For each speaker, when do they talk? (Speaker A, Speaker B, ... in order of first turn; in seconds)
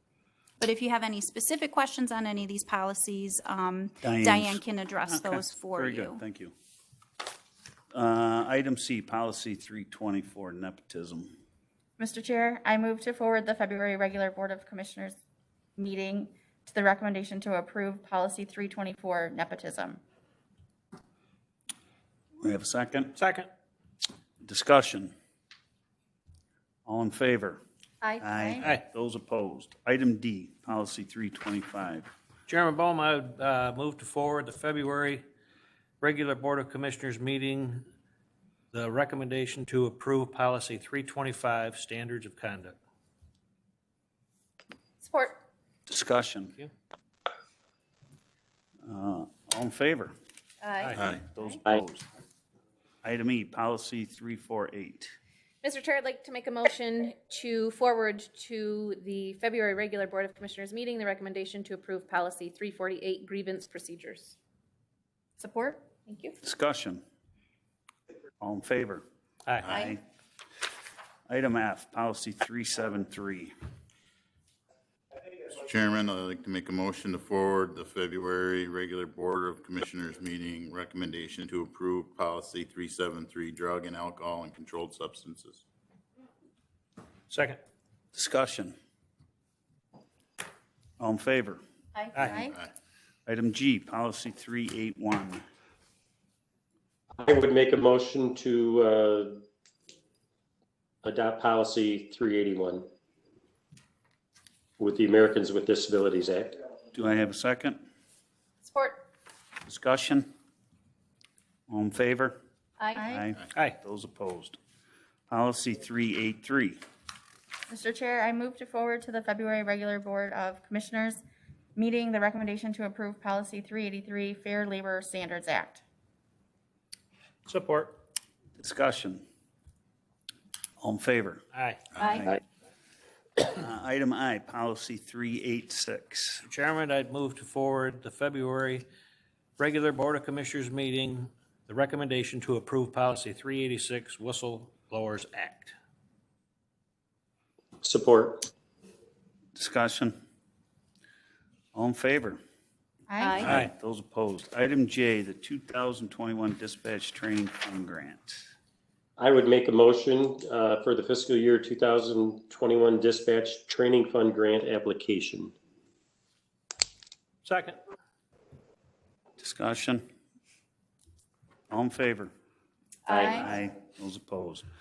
Speaker A: 0.6-6.2
Speaker B: 4.0-6.5, 7.9-11.3, 22.4-23.1, 24.4-25.1, 26.9-27.6, 28.2-32.1, 45.9-46.5, 48.8-50.1, 51.0-52.0, 53.0-55.1, 66.4-67.0, 68.4-69.0, 69.7-70.0, 71.3-73.5, 88.1-88.7, 91.0-91.6, 93.2-95.4, 106.9-107.8, 109.6-110.3, 111.7-112.3, 113.0-114.6, 115.3-116.8, 128.6-129.2, 130.8-131.4, 132.0-132.4, 133.4-136.4, 149.6-150.2, 151.7-152.4, 153.4-158.4, 169.4-170.0, 171.7-172.3, 173.2-174.6
Speaker C: 12.0-15.2, 15.8-20.0, 28.0-28.6, 65.4-65.8, 91.9-92.5, 112.9-113.2, 117.7-121.2, 121.8-125.8, 153.1-153.5
Speaker D: 23.2-23.4, 32.5-35.2, 36.0-37.8, 38.7-42.8, 127.5-127.9, 136.5-138.8, 139.6-145.7, 167.4-167.8
Speaker E: 45.0-45.4, 50.6-51.1, 55.6-64.3, 66.1-66.3, 69.7-69.9, 108.6-109.0, 132.0-132.2, 153.2-153.5, 173.1-173.3
Speaker F: 51.0-51.2, 75.5-85.6, 92.4-92.7
Speaker G: 97.2-99.4, 101.0-102.8, 104.8-106.5, 147.8-148.5, 159.2-165.5, 173.1-173.4